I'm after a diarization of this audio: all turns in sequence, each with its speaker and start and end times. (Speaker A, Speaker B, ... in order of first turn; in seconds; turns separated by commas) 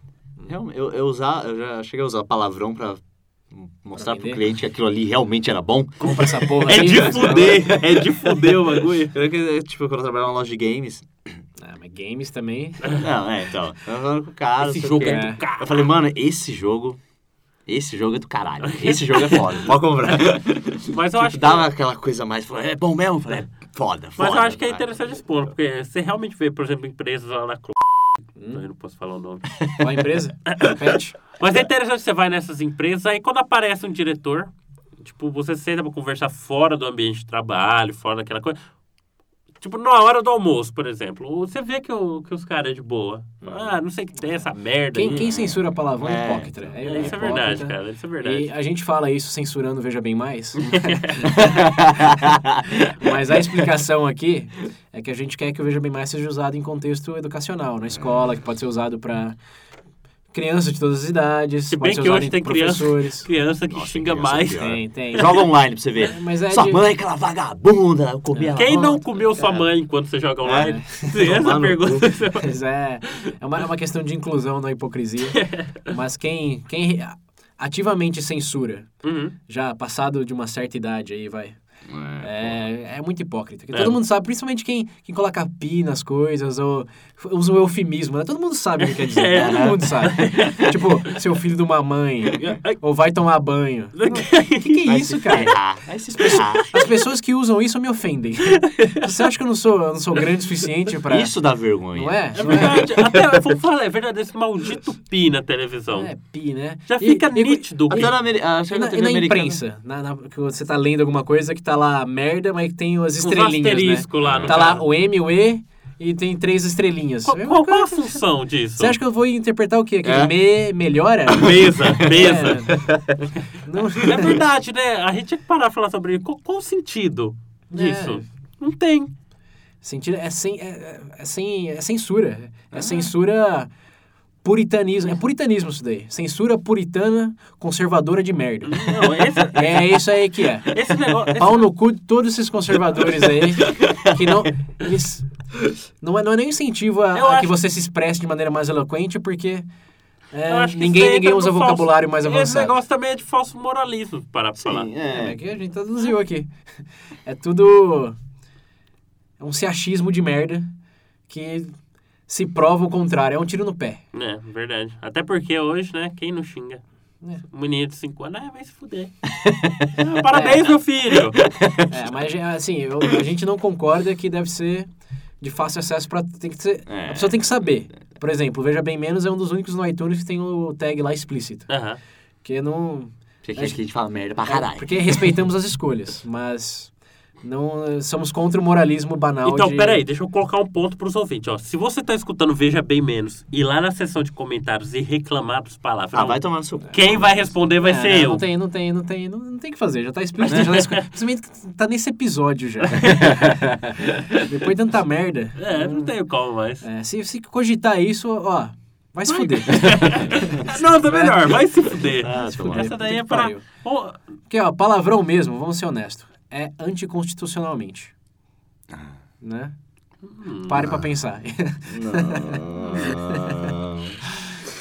Speaker A: 0.5-11.4, Speaker B: 4.0-4.4, Speaker B: 6.0-7.8, Speaker C: 6.0-9.2, Speaker B: 11.6-13.0, Speaker A: 13.0-17.0, Speaker C: 14.6-15.9, Speaker B: 15.0-15.4, Speaker A: 17.7-25.0, Speaker C: 18.6-19.6, Speaker C: 20.9-21.7, Speaker C: 24.2-29.6, Speaker B: 28.4-28.6, Speaker A: 29.6-29.9, Speaker B: 29.8-31.2, Speaker C: 30.5-30.8, Speaker C: 31.3-34.5, Speaker C: 35.0-38.6, Speaker C: 39.6-45.3, Speaker B: 43.4-43.8, Speaker B: 44.9-51.8, Speaker A: 45.1-47.4, Speaker C: 46.8-48.5, Speaker C: 50.6-51.4, Speaker A: 51.4-52.9, Speaker B: 53.0-59.4, Speaker B: 60.3-63.3, Speaker C: 61.7-65.2, Speaker A: 63.7-69.7, Speaker B: 64.6-66.8, Speaker B: 68.3-69.0, Speaker C: 68.5-72.5, Speaker A: 70.4-72.1, Speaker B: 70.6-71.2, Speaker B: 72.3-78.9, Speaker C: 75.3-75.8, Speaker C: 79.0-79.3, Speaker B: 79.5-81.6, Speaker A: 81.9-82.6, Speaker B: 82.2-95.5, Speaker C: 83.7-84.0, Speaker C: 88.8-91.1, Speaker A: 89.4-89.9, Speaker C: 92.3-92.8, Speaker C: 94.0-95.5, Speaker A: 94.9-96.7, Speaker C: 96.2-96.7, Speaker B: 96.2-102.9, Speaker A: 101.1-103.2, Speaker C: 102.4-106.1, Speaker B: 105.9-118.2, Speaker C: 106.9-108.1, Speaker A: 107.9-109.6, Speaker C: 113.2-114.8, Speaker A: 114.2-114.8, Speaker C: 117.3-119.0, Speaker B: 118.8-122.8, Speaker A: 120.0-120.4, Speaker A: 121.3-123.2, Speaker C: 121.3-122.7, Speaker B: 123.6-124.4, Speaker C: 124.0-129.1, Speaker B: 127.7-128.2, Speaker B: 129.8-133.7, Speaker A: 132.7-133.1, Speaker B: 134.4-140.8, Speaker C: 138.7-140.1, Speaker C: 140.7-141.7, Speaker B: 141.3-145.3, Speaker A: 143.2-144.2, Speaker B: 146.0-149.7, Speaker C: 147.1-147.5, Speaker B: 150.3-152.8, Speaker C: 150.5-154.9, Speaker A: 154.6-155.4, Speaker B: 155.1-156.5, Speaker B: 157.3-158.2, Speaker B: 159.4-160.7, Speaker B: 161.3-161.7, Speaker B: 162.3-164.0, Speaker C: 164.1-166.8, Speaker C: 167.4-169.1, Speaker A: 169.4-169.9, Speaker C: 169.9-171.4, Speaker B: 170.3-170.8, Speaker A: 171.5-172.1, Speaker B: 171.9-174.9, Speaker B: 175.4-181.7, Speaker A: 176.9-177.8, Speaker C: 181.7-182.0, Speaker B: 182.4-183.8, Speaker A: 183.4-185.4, Speaker B: 184.3-186.9, Speaker B: 187.4-190.1, Speaker C: 189.4-198.5, Speaker A: 196.1-197.6, Speaker B: 197.6-203.8, Speaker C: 200.4-201.1, Speaker A: 200.5-200.9, Speaker A: 203.0-203.5, Speaker B: 204.4-206.2, Speaker C: 205.6-206.9, Speaker B: 206.8-213.6, Speaker C: 209.3-214.2, Speaker A: 212.2-213.2, Speaker B: 214.5-218.1, Speaker B: 219.4-219.7, Speaker C: 220.2-220.8, Speaker B: 220.7-223.7, Speaker A: 220.8-221.1, Speaker A: 221.9-224.2